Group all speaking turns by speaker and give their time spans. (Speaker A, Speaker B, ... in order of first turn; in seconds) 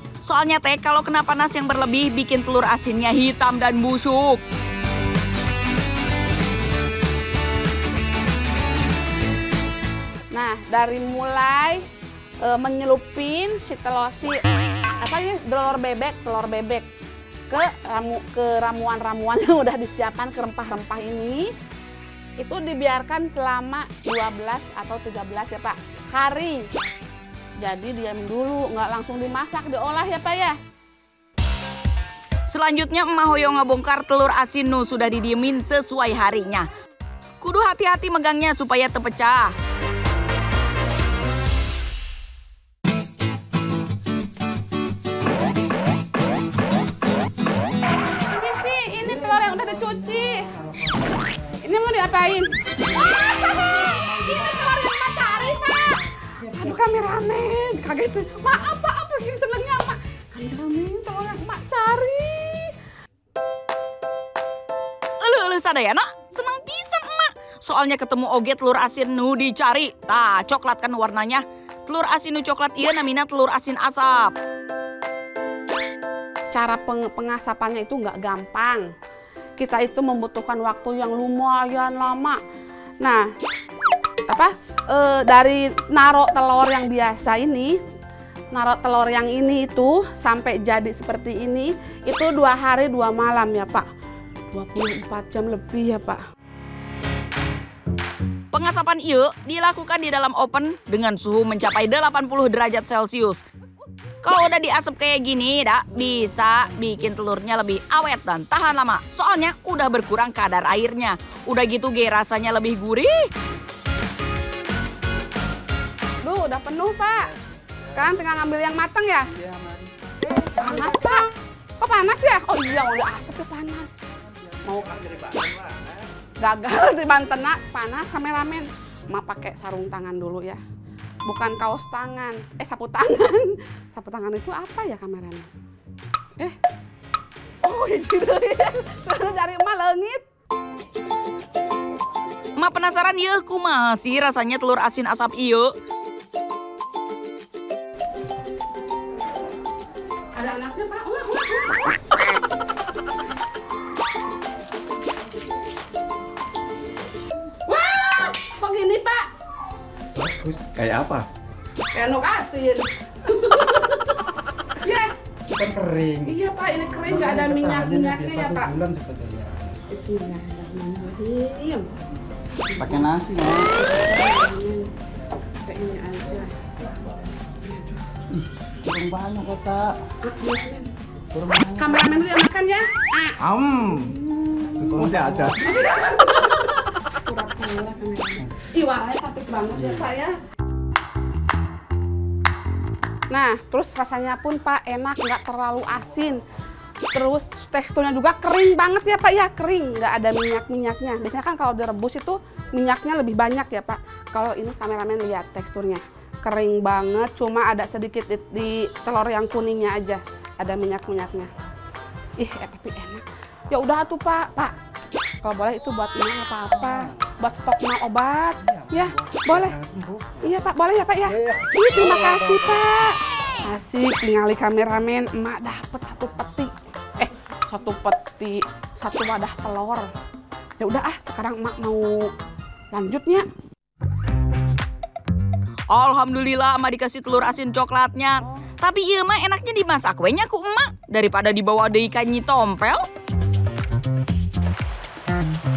Speaker A: 0.2-4.4, 32.5-36.7, 37.4-39.5, 65.2-74.3, 98.5-103.4, 104.2-113.3, 142.6-145.7, 235.9-243.0
Speaker B: 10.3-11.9, 12.4-14.4, 15.0-16.9, 17.5-21.5, 22.4-26.6, 27.6-30.6, 48.2-50.5, 51.6-62.7, 76.5-78.9, 79.6-82.4, 83.0-83.2, 84.3-87.8, 88.5-93.8, 94.5-96.2, 116.2-117.3, 117.9-119.3, 120.5-121.3, 121.8-123.9, 124.6-124.9, 126.4-130.6, 131.2-135.5, 137.6-140.2, 150.3-151.9, 157.7-159.2, 161.9-164.2, 164.8-165.1, 166.2-168.8, 169.9-171.9, 172.6-174.9, 175.6-176.7, 177.6-178.1, 180.2-180.9, 181.7-190.3, 193.3-196.4, 197.1-211.5, 212.4-214.7, 215.4-219.8, 220.4-230.1, 230.8-232.3, 232.9-233.5
Speaker C: 119.3-119.9, 124.5-126.0, 160.1-161.3, 165.5-166.3, 167.1-169.6, 172.8-173.7, 178.8-180.0, 181.3-182.1, 183.4-184.2, 184.8-185.6, 218.7-220.4, 222.0-222.6